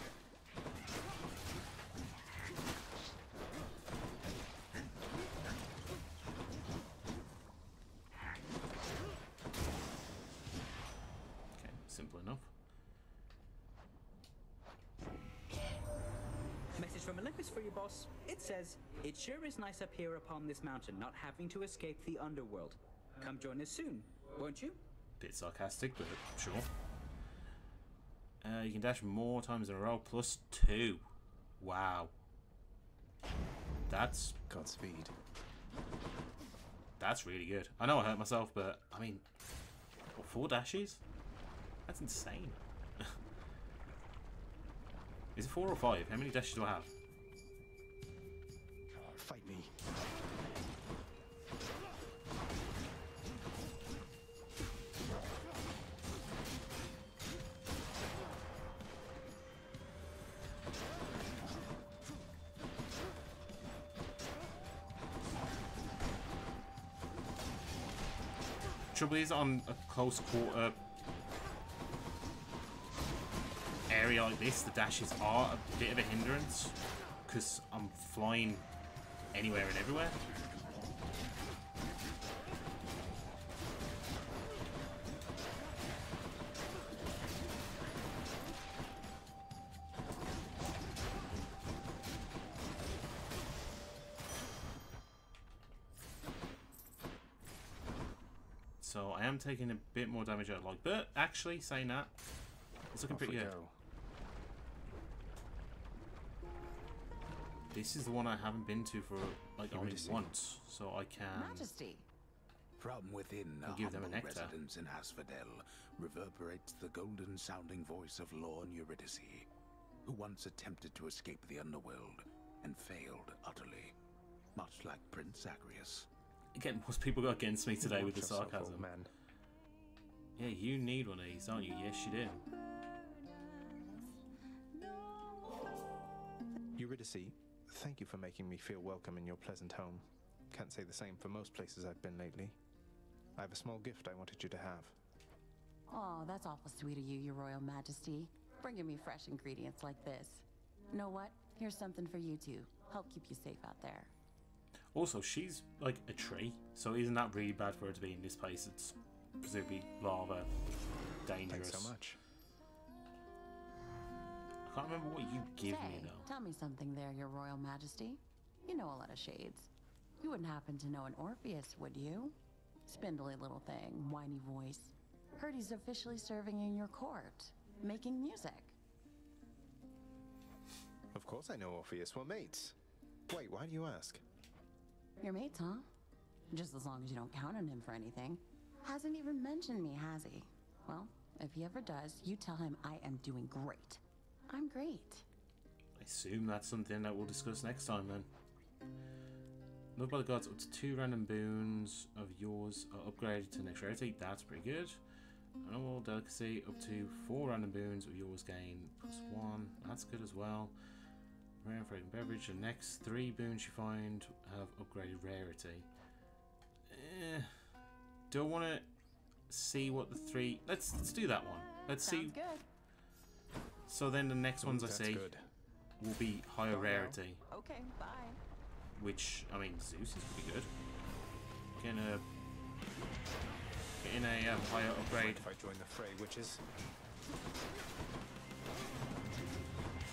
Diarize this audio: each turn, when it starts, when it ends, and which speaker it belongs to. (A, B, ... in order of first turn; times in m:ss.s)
0:11.6-0:12.5 A
0:16.8-0:24.8 B
0:25.2-0:26.7 A
0:28.4-0:31.0 A
0:31.6-0:32.1 A
0:33.9-0:34.4 A
0:34.5-0:35.1 C
0:37.0-0:39.2 A
0:40.2-0:41.0 A
0:41.9-0:43.2 A
0:45.4-0:46.9 A
0:49.1-0:49.7 C
1:08.9-1:10.8 A
1:13.9-1:18.7 A
1:19.3-1:20.2 A
1:38.8-1:42.1 A
1:42.9-1:43.5 A
1:43.1-1:43.7 C
1:47.7-1:51.7 A
1:49.7-1:50.2 C
1:51.3-1:52.1 D
1:52.8-1:59.5 E
1:53.6-1:54.6 A
2:00.0-2:04.0 E
2:04.6-2:06.1 E
2:06.6-2:08.9 A
2:07.8-2:09.1 C
2:10.4-2:12.4 A
2:16.8-2:22.6 C
2:23.4-2:25.0 C
2:25.9-2:34.1 D
2:34.9-2:40.5 A
2:41.2-2:42.0 A
2:41.5-2:42.2 C
2:44.7-2:46.3 A
2:45.6-2:49.7 D
2:50.2-2:58.8 D
3:01.1-3:02.8 C
3:03.3-3:04.2 C
3:05.2-3:05.9 D
3:06.5-3:15.2 D
3:16.0-3:18.3 A
3:20.0-3:25.0 A
3:25.6-3:30.8 A
3:31.6-3:35.9 A
3:36.9-3:37.5 A
3:38.3-3:38.9 A
3:39.5-3:42.4 A
3:41.8-3:42.6 D
3:43.9-3:45.3 A
3:44.6-3:45.4 C
3:46.0-3:47.4 A
3:46.8-3:47.2 C
3:47.5-3:48.4 D
3:49.0-3:50.7 A
3:51.8-3:52.2 A
3:54.0-3:55.4 A
3:55.0-3:56.6 C